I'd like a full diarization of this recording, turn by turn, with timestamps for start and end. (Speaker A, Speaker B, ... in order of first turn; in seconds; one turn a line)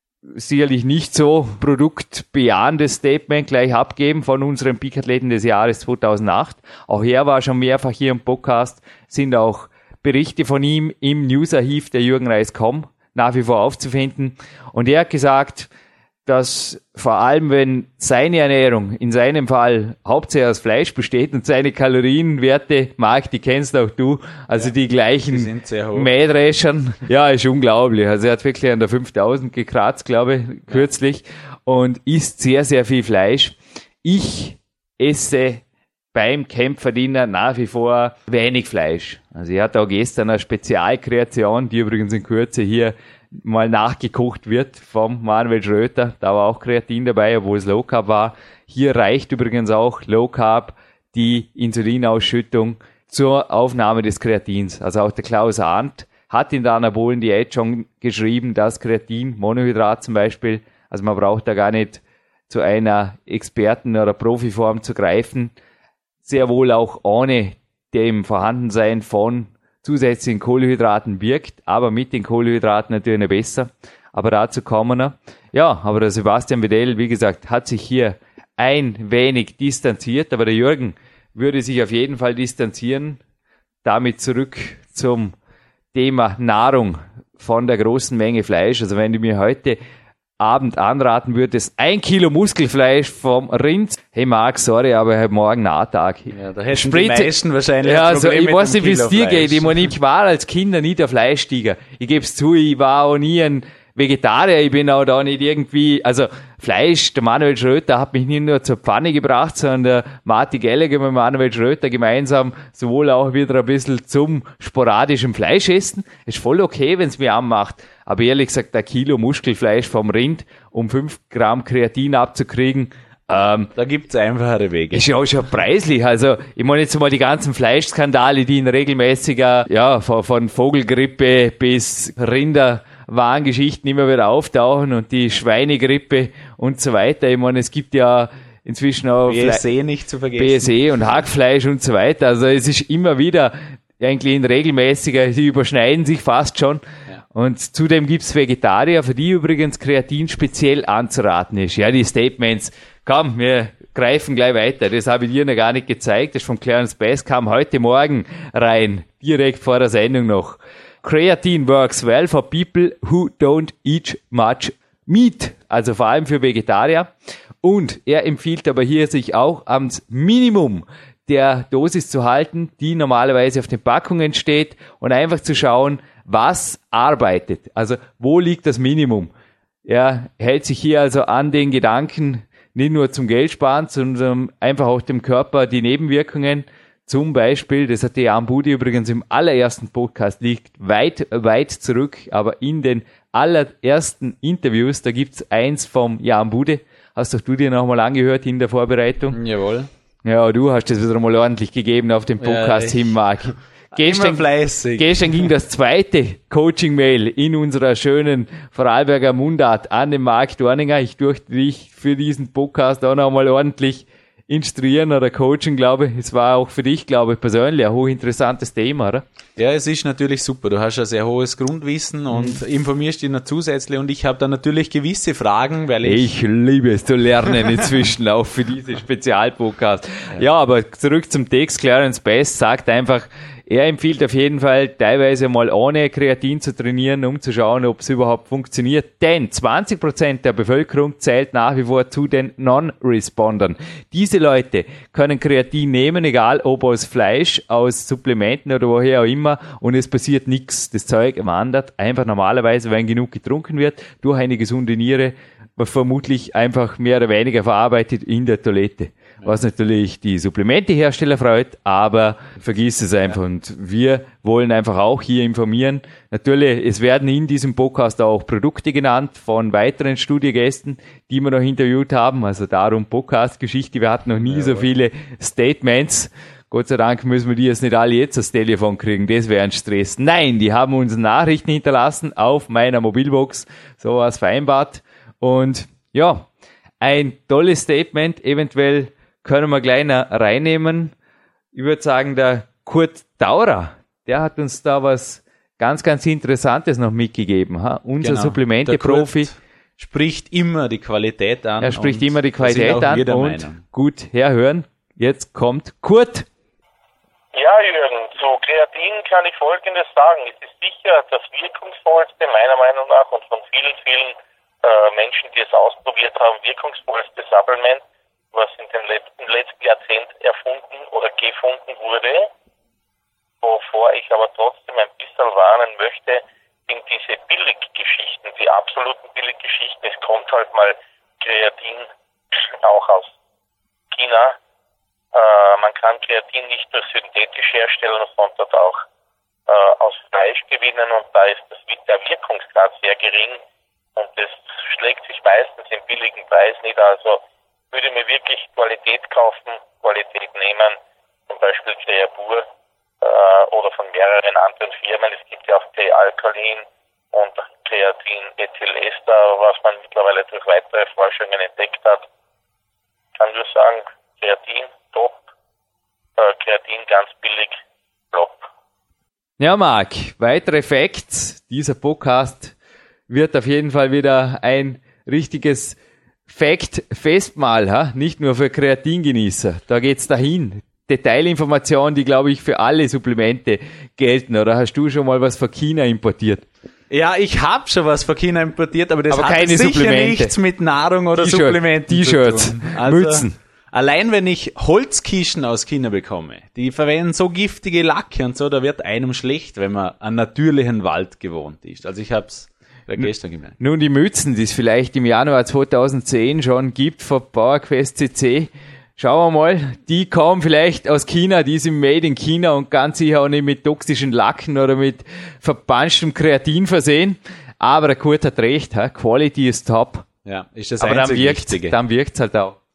Speaker A: 0.3-15.7
Speaker A: 16.2-35.6
Speaker B: 25.3-26.1
Speaker A: 36.1-65.5
Speaker A: 66.2-83.2
Speaker A: 83.8-85.3
Speaker A: 85.9-89.8
Speaker A: 90.4-123.7
Speaker B: 96.3-99.9
Speaker B: 123.8-125.1
Speaker A: 124.9-139.6
Speaker B: 139.3-141.1
Speaker A: 140.3-146.8
Speaker A: 147.3-167.1
Speaker A: 167.6-179.3
Speaker A: 179.8-199.4
Speaker B: 199.3-199.9
Speaker A: 200.2-219.2
Speaker B: 202.4-203.2
Speaker B: 203.9-205.4
Speaker B: 219.6-226.3
Speaker A: 226.0-286.4
Speaker B: 274.4-274.9
Speaker A: 287.0-291.1
Speaker A: 291.7-299.5
Speaker B: 298.2-303.8
Speaker A: 301.8-306.5
Speaker C: 307.5-322.5
Speaker C: 323.6-333.3
Speaker C: 334.1-334.6
Speaker C: 335.3-339.0
Speaker C: 339.7-343.6
Speaker C: 344.2-350.9
Speaker C: 351.5-352.6
Speaker C: 353.2-362.2
Speaker C: 363.4-365.4
Speaker C: 366.4-367.8
Speaker C: 368.3-368.7
Speaker A: 369.6-372.7
Speaker A: 373.3-375.9
Speaker A: 376.5-386.6
Speaker B: 387.1-403.8
Speaker A: 389.3-390.5
Speaker A: 391.3-393.6
Speaker A: 403.2-420.3
Speaker B: 420.4-421.9
Speaker A: 421.0-422.8